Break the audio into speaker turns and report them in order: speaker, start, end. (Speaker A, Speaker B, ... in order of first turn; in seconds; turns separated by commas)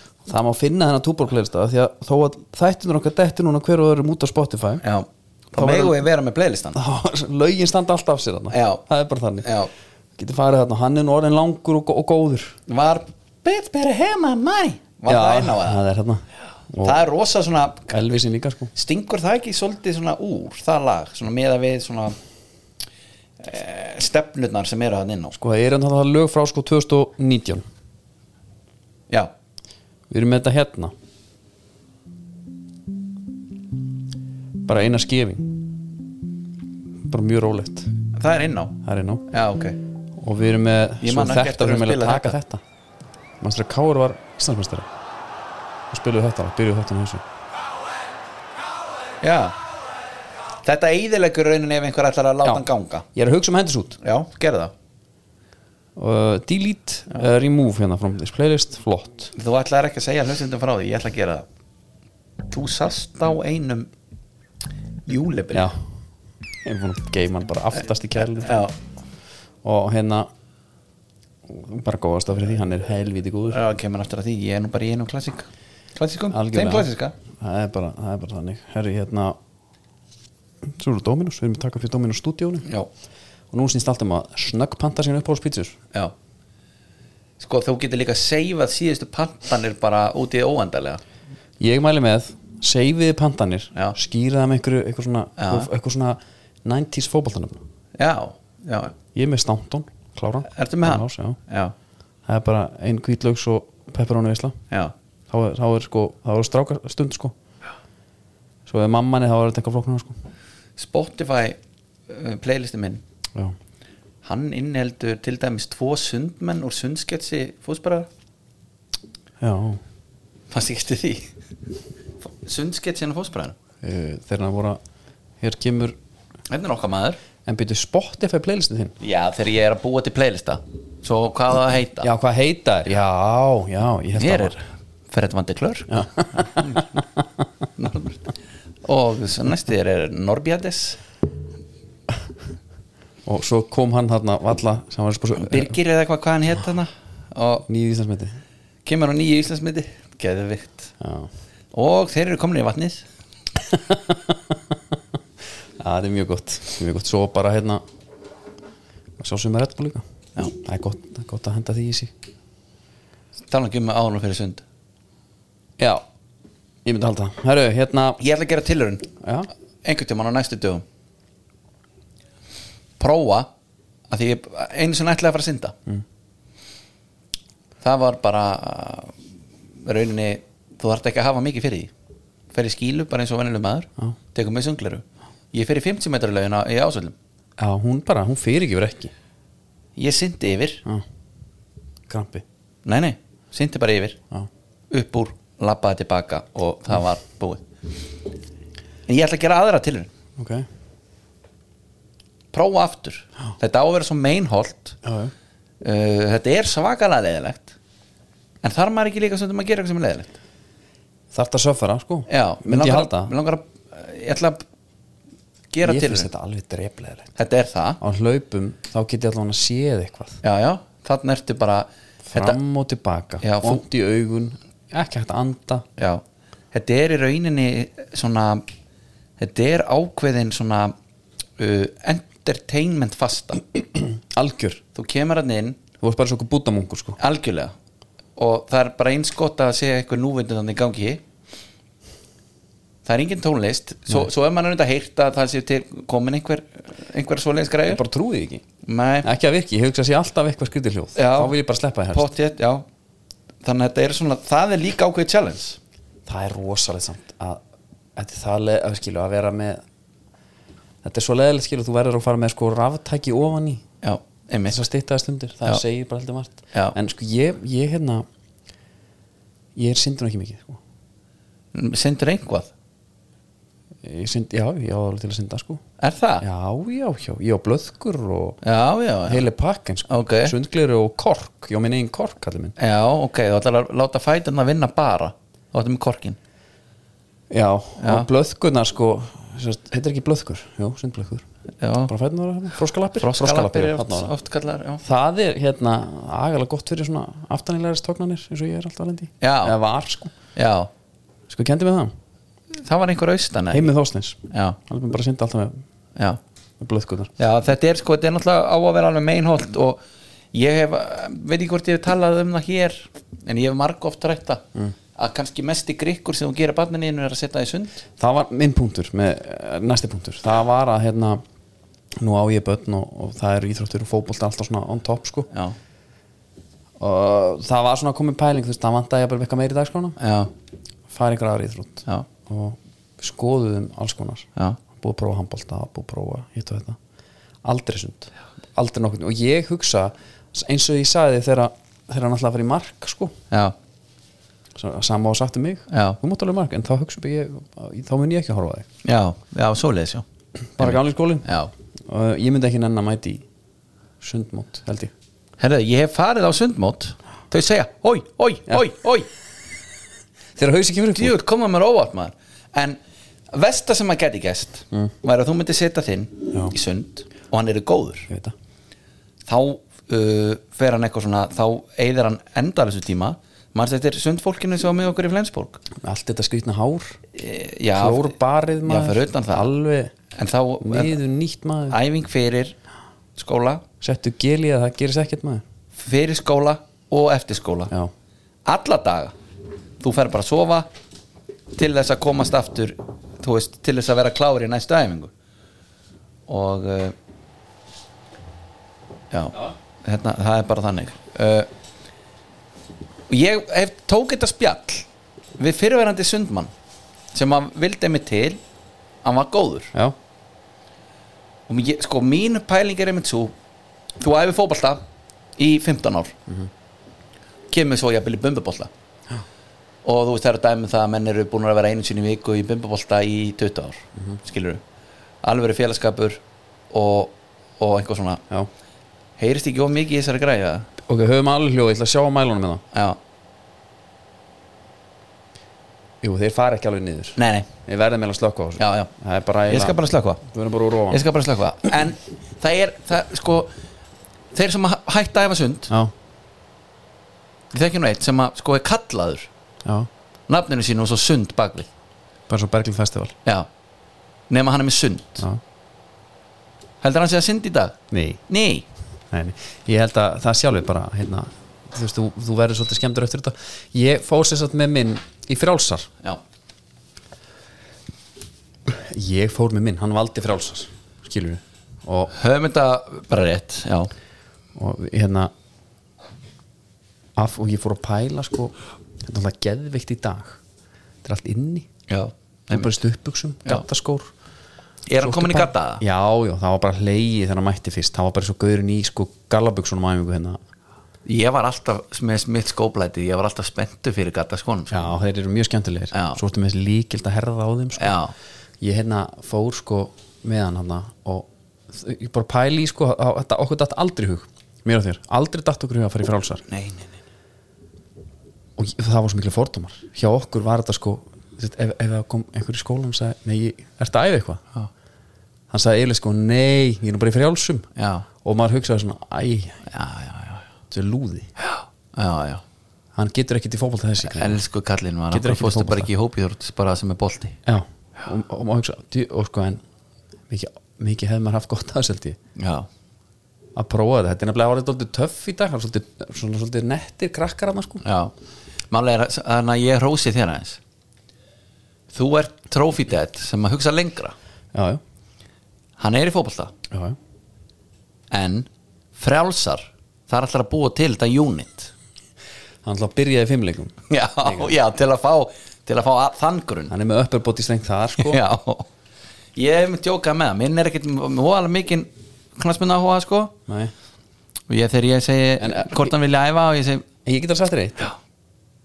Speaker A: 0.2-4.8, Speaker B: 4.8-6.8, Speaker A: 5.6-6.0, Speaker A: 6.7-9.5, Speaker B: 8.5-8.8, Speaker B: 9.4-9.7, Speaker A: 10.2-12.6, Speaker B: 12.7-15.8, Speaker A: 15.1-17.0, Speaker B: 16.8-18.0, Speaker A: 17.9-18.7, Speaker B: 18.7-22.1, Speaker B: 23.4-25.3, Speaker A: 25.4-27.6, Speaker A: 30.1-30.9, Speaker A: 34.6-35.7, Speaker A: 37.1-37.9, Speaker B: 38.1-38.8, Speaker A: 38.8-39.3, Speaker B: 39.3-39.8, Speaker A: 40.2-42.6, Speaker B: 41.0-42.4, Speaker A: 43.4-44.9, Speaker A: 45.9-47.2, Speaker B: 49.2-49.5, Speaker B: 50.6-53.0, Speaker A: 52.4-54.0, Speaker B: 54.0-54.7, Speaker A: 56.0-59.3, Speaker B: 59.3-61.5, Speaker B: 62.5-63.9, Speaker B: 65.0-65.7, Speaker A: 65.5-65.8, Speaker A: 66.6-68.6, Speaker B: 68.2-68.7, Speaker A: 69.6-70.3, Speaker A: 71.5-73.6, Speaker B: 73.5-77.1, Speaker A: 76.3-79.4, Speaker A: 80.6-82.7, Speaker A: 83.5-85.8, Speaker B: 87.4-91.0, Speaker A: 91.6-97.6, Speaker B: 95.4-95.7, Speaker B: 98.0-98.9, Speaker A: 99.1-101.4, Speaker B: 100.5-101.7, Speaker A: 102.2-104.6, Speaker A: 105.3-107.3, Speaker A: 108.7-110.2, Speaker B: 110.8-113.0, Speaker B: 114.2-118.1, Speaker A: 119.4-119.8, Speaker B: 120.5-121.3, Speaker B: 122.2-123.6, Speaker A: 123.8-124.8, Speaker A: 125.4-126.0, Speaker B: 126.5-127.2, Speaker A: 127.4-128.9, Speaker B: 129.0-132.1, Speaker A: 132.0-134.6, Speaker B: 134.2-136.9, Speaker A: 135.9-136.8, Speaker B: 137.8-138.3, Speaker B: 138.8-141.0, Speaker A: 143.2-145.8, Speaker B: 145.4-147.7, Speaker A: 147.7-148.4, Speaker B: 148.8-150.9, Speaker A: 151.0-151.3, Speaker B: 151.7-153.1, Speaker A: 153.7-155.0, Speaker A: 155.8-157.8, Speaker A: 159.2-162.1, Speaker B: 163.5-164.6, Speaker A: 165.8-166.0, Speaker A: 166.8-168.2, Speaker B: 168.2-169.1, Speaker A: 169.2-169.5, Speaker B: 169.8-170.8, Speaker B: 173.0-173.5, Speaker B: 174.1-175.7, Speaker B: 177.8-179.1, Speaker B: 179.8-181.9, Speaker B: 182.5-187.1, Speaker A: 187.6-189.1, Speaker B: 189.9-190.8, Speaker A: 192.1-192.4, Speaker B: 192.8-194.2, Speaker B: 194.9-197.7, Speaker B: 199.1-200.1, Speaker A: 200.4-200.7, Speaker B: 202.5-205.0, Speaker A: 205.0-205.3, Speaker B: 205.8-207.7, Speaker B: 208.6-210.3, Speaker A: 211.3-213.3, Speaker B: 212.3-214.6, Speaker B: 215.7-216.3, Speaker A: 215.8-217.3, Speaker B: 217.3-218.0, Speaker A: 218.0-220.4, Speaker B: 220.4-222.6, Speaker A: 222.2-225.8, Speaker B: 223.4-223.8, Speaker B: 226.0-228.6, Speaker B: 229.4-230.9, Speaker B: 231.6-233.6, Speaker A: 234.1-234.8, Speaker B: 234.9-235.8, Speaker A: 236.0-237.2, Speaker B: 237.2-237.7, Speaker B: 238.4-241.2, Speaker B: 243.1-248.0, Speaker A: 247.9-248.6, Speaker B: 248.8-249.3, Speaker A: 249.2-252.3, Speaker B: 251.2-251.5, Speaker B: 252.1-252.8, Speaker B: 253.6-255.8, Speaker A: 256.2-257.6, Speaker A: 258.1-259.8, Speaker A: 261.0-263.8, Speaker B: 264.0-264.9, Speaker A: 264.7-268.2, Speaker A: 269.8-270.8, Speaker B: 271.7-272.7, Speaker A: 274.0-275.8, Speaker B: 276.0-276.4, Speaker A: 276.4-278.6, Speaker B: 278.6-279.4, Speaker A: 279.2-282.7, Speaker B: 280.1-280.5, Speaker B: 282.8-286.4, Speaker A: 287.5-291.4, Speaker B: 288.0-288.3, Speaker B: 291.8-292.1, Speaker A: 292.1-294.3, Speaker B: 293.2-295.0, Speaker A: 295.0-300.3, Speaker B: 299.4-299.8, Speaker B: 300.5-300.9, Speaker A: 301.5-302.1, Speaker B: 302.8-303.9, Speaker A: 303.7-305.8, Speaker B: 304.5-304.8, Speaker A: 306.8-307.3, Speaker B: 307.4-310.0, Speaker B: 310.5-314.6, Speaker B: 315.1-318.0, Speaker A: 318.2-321.4, Speaker A: 322.2-325.5, Speaker B: 325.5-325.8, Speaker A: 327.0-330.1, Speaker B: 330.2-330.5, Speaker A: 331.1-337.0, Speaker A: 337.6-343.3, Speaker A: 344.7-348.9, Speaker B: 345.9-346.2, Speaker B: 349.0-350.2, Speaker A: 350.8-351.4, Speaker B: 350.8-351.7, Speaker A: 352.0-353.4, Speaker A: 354.2-355.1, Speaker B: 355.6-359.3, Speaker A: 360.6-361.4, Speaker B: 361.1-363.0, Speaker B: 363.5-368.3, Speaker A: 368.3-368.5, Speaker B: 369.5-375.8, Speaker A: 376.0-377.2, Speaker B: 377.3-379.7, Speaker A: 377.9-380.1, Speaker B: 380.3-381.2, Speaker A: 380.8-382.0, Speaker B: 381.9-382.8, Speaker B: 383.4-383.8, Speaker A: 384.0-385.6, Speaker B: 386.0-387.9, Speaker B: 388.6-389.3, Speaker B: 390.0-390.9, Speaker B: 391.7-395.3, Speaker B: 396.5-397.1, Speaker B: 399.3-401.7, Speaker B: 403.3-405.1, Speaker B: 405.6-406.7, Speaker B: 407.3-408.6, Speaker B: 409.2-409.9, Speaker B: 411.7-413.5, Speaker B: 414.2-415.0, Speaker B: 415.6-416.3, Speaker B: 417.7-418.9, Speaker B: 420.0-424.8, Speaker B: 425.4-428.4, Speaker B: 429.4-430.9, Speaker A: 431.0-432.8, Speaker B: 432.9-433.2, Speaker A: 436.2-441.2, Speaker B: 437.4-437.7, Speaker B: 438.8-439.1, Speaker B: 439.7-440.4, Speaker B: 441.1-443.7, Speaker B: 444.5-445.9, Speaker B: 447.7-449.5, Speaker B: 450.5-451.9, Speaker A: 452.5-453.3, Speaker B: 454.5-455.5, Speaker B: 457.0-458.0, Speaker A: 458.1-458.4, Speaker B: 458.5-458.9, Speaker A: 459.3-466.1, Speaker A: 468.9-472.3, Speaker B: 472.3-474.1, Speaker A: 474.7-475.5, Speaker A: 477.4-480.6, Speaker A: 481.2-481.9, Speaker B: 482.1-482.9, Speaker A: 482.7-484.3, Speaker B: 485.1-486.0, Speaker A: 485.2-490.6, Speaker B: 491.2-495.1, Speaker A: 494.9-498.2, Speaker B: 496.1-496.4, Speaker B: 498.0-498.3, Speaker A: 498.8-506.6, Speaker B: 506.7-507.2, Speaker A: 508.8-514.6, Speaker A: 515.7-517.9, Speaker B: 518.0-518.2, Speaker A: 518.4-519.8, Speaker B: 519.9-520.6, Speaker A: 520.9-521.5, Speaker B: 521.6-522.6, Speaker A: 523.1-524.6, Speaker B: 524.2-527.6, Speaker A: 525.3-526.1, Speaker A: 527.6-529.8, Speaker A: 530.5-532.4, Speaker B: 532.5-532.9, Speaker A: 533.7-538.0, Speaker B: 538.0-538.3, Speaker B: 538.9-540.8, Speaker B: 542.1-544.3, Speaker A: 544.7-545.0, Speaker B: 546.0-546.7, Speaker A: 546.9-547.2, Speaker B: 548.3-551.9, Speaker A: 552.8-554.7, Speaker B: 554.1-556.9, Speaker A: 556.9-558.4, Speaker B: 558.2-558.9, Speaker B: 559.5-563.5, Speaker A: 563.7-563.9, Speaker B: 564.7-567.0, Speaker A: 565.6-566.1, Speaker A: 567.2-568.1